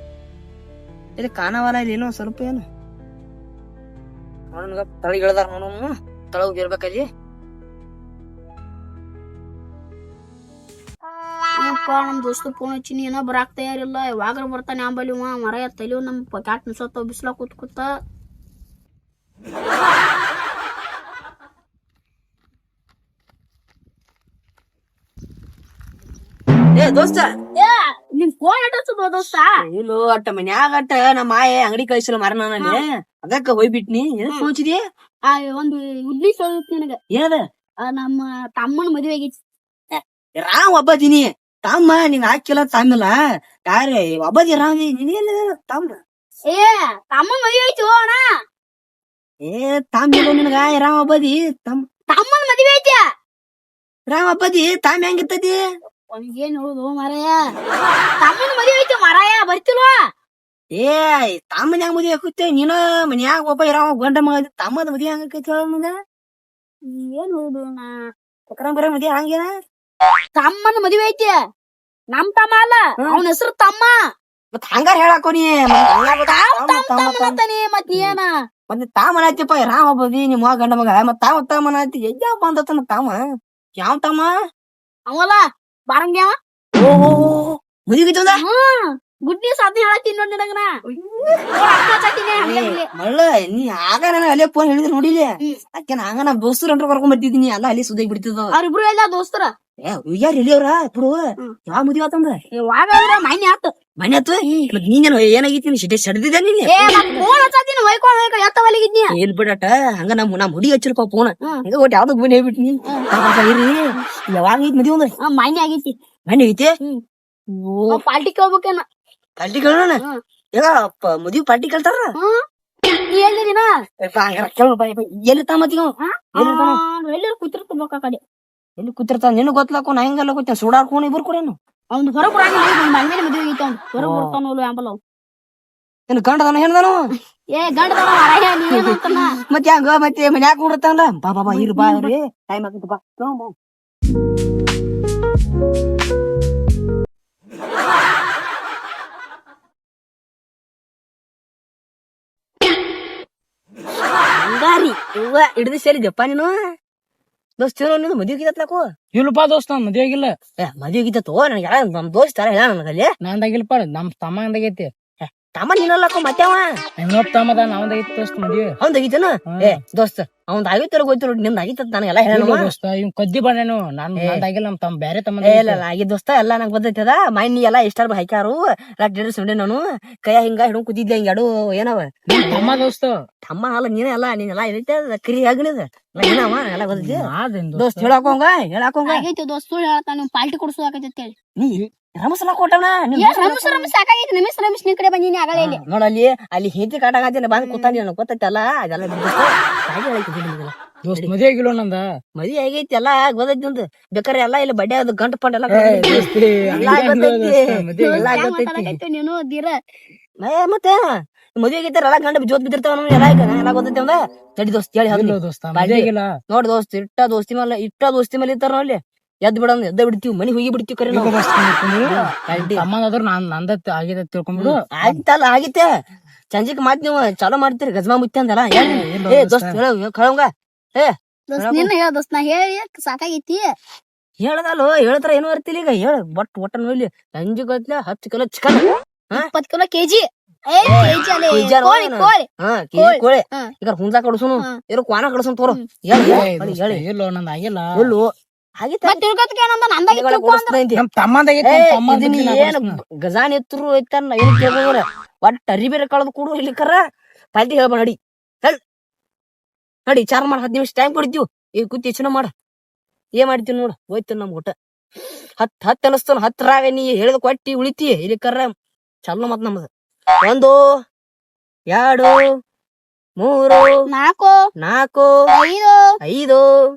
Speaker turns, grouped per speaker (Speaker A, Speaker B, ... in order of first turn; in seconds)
Speaker A: 1.2-2.6, 4.5-7.0, 26.7-27.3, 29.6-34.8, 37.1-37.4, 40.4-43.1, 43.7-46.0, 49.5-51.8, 54.1-55.5, 60.7-65.9, 68.5-69.5, 74.5-77.4, 78.7-83.2, 83.8-84.3, 86.8-88.4, 90.9-91.4, 92.4-98.5, 99.8-102.4, 104.0-107.3, 109.1-115.1, 116.3-116.7, 117.5-118.0, 119.4-120.0, 120.5-122.1, 124.0-126.8, 128.8-131.6, 134.0-134.4, 136.1-137.1, 138.8-143.5, 154.3-156.5, 157.6-158.9, 160.6-163.1, 165.2-166.7, 168.8-172.7, 174.2-174.4, 175.4-182.8, 183.4-189.2, 191.6-193.9, 195.6-201.3, 202.3-209.0, 210.4-221.3, 222.0-222.9, 224.6-225.9, 226.5-231.9, 234.4-239.5, 240.8-247.0, 247.9-248.3, 248.8-249.2, 250.1-251.0, 251.6-257.0, 257.5-258.8, 260.1-262.5, 263.4-264.7, 265.6-268.7, 269.2-269.9, 270.4-270.8, 271.9-272.3, 273.4-273.9, 274.8-275.3, 276.2-276.6
Speaker B: 11.6-17.9, 27.6-29.6, 35.3-37.0, 37.8-39.4, 46.5-48.2, 52.1-53.0, 56.1-57.4, 58.2-60.0, 66.8-67.9, 70.3-71.3, 72.1-73.9, 76.2-78.3, 85.1-86.3, 88.3-90.7, 91.5-92.9, 98.5-99.5, 102.5-103.7, 104.4-104.7, 106.7-109.1, 115.2-115.9, 117.9-118.8, 123.1-123.7, 126.0-128.2, 131.9-135.0, 137.5-139.4, 141.5-142.1, 189.1-191.3, 193.1-195.8, 197.6-198.0, 208.0-209.8, 231.5-233.7, 239.3-242.4, 243.0-243.7, 249.1-250.8, 274.1-274.5, 275.5-276.0
Speaker C: 159.1-160.3, 163.2-164.9, 167.0-168.8, 169.5-169.8, 172.3-175.8, 182.3-183.2, 186.9-188.1, 201.0-202.1, 205.7-208.3, 215.1-216.3, 221.1-225.2, 228.7-229.8, 246.2-248.1, 250.9-253.0